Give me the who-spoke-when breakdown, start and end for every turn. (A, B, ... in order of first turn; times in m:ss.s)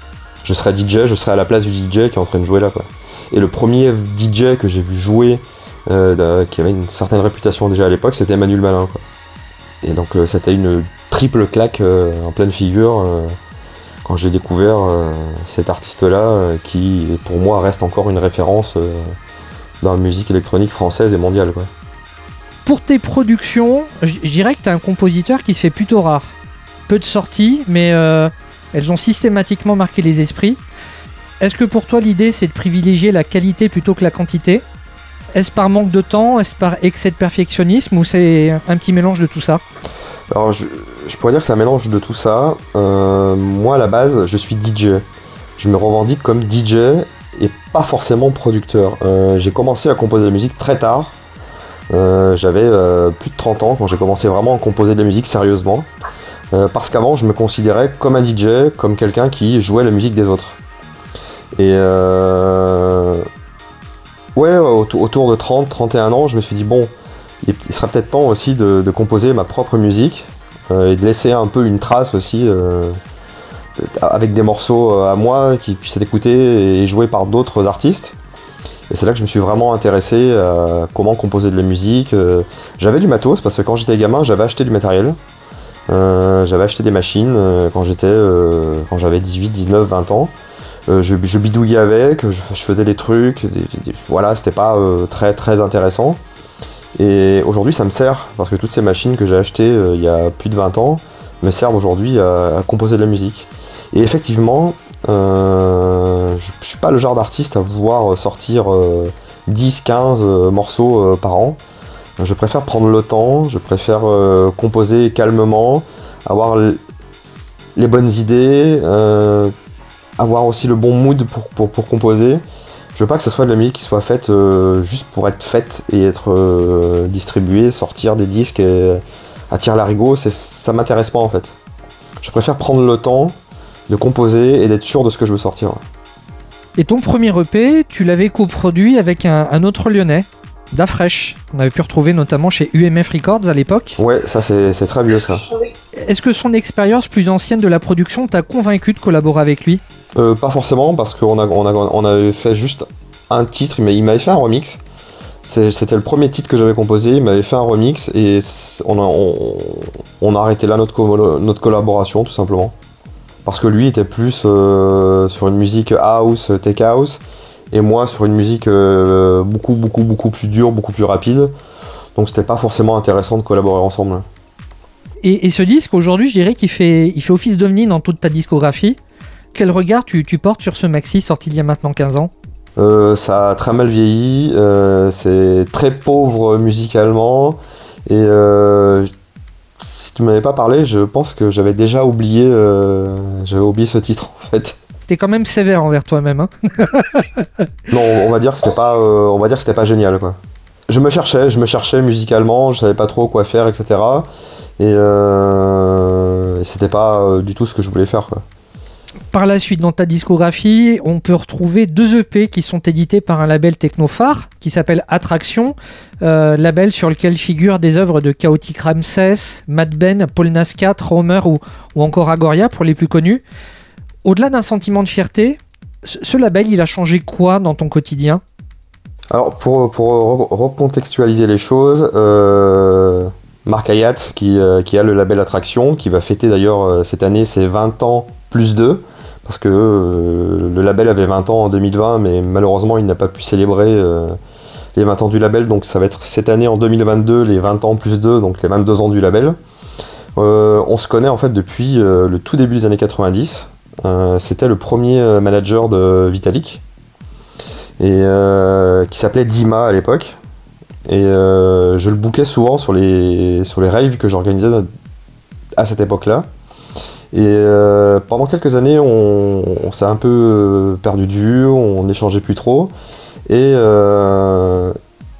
0:00.4-0:09.0 A
0:09.8-0:13.4 A
0:14.0-0:19.1 A
0:19.8-0:21.7 A
0:22.6-0:26.4 B
0:26.9-0:30.6 B
0:31.4-0:34.6 B
0:35.3-0:39.6 B
0:40.3-0:45.0 A
0:45.6-0:51.1 A
0:51.9-0:55.9 A
0:56.5-1:00.6 A
1:01.6-1:03.3 A
1:04.4-1:06.9 A
1:07.4-1:13.0 A
1:13.8-1:18.1 A
1:18.9-1:25.2 A
1:25.9-1:30.3 A
1:30.9-1:36.2 A
1:37.0-1:51.6 A
1:52.2-1:56.8 A
1:57.8-1:59.5 A
2:00.2-2:02.4 A
2:03.0-2:11.5 A
2:12.2-2:13.4 A
2:13.9-2:15.8 A
2:16.8-2:24.0 B
2:24.0-2:25.5 A
2:25.9-2:29.8 B
2:30.2-2:34.8 A
2:35.4-2:42.7 A
2:43.4-2:47.2 A
2:47.7-2:51.5 A
2:52.2-2:54.2 A
2:55.2-2:59.0 B
2:59.5-3:02.3 B
3:02.8-3:09.1 A
3:09.8-3:14.8 A
3:15.1-3:17.3 B
3:17.9-3:20.4 A
3:20.9-3:24.3 A
3:24.8-3:28.4 A
3:29.3-3:43.4 B
3:44.2-3:48.4 B
3:49.3-4:04.4 A
4:04.9-4:09.6 A
4:10.4-4:16.8 A
4:18.0-4:20.4 A
4:21.0-4:24.9 A
4:25.8-4:26.5 A
4:27.3-4:32.9 A
4:33.5-4:35.0 A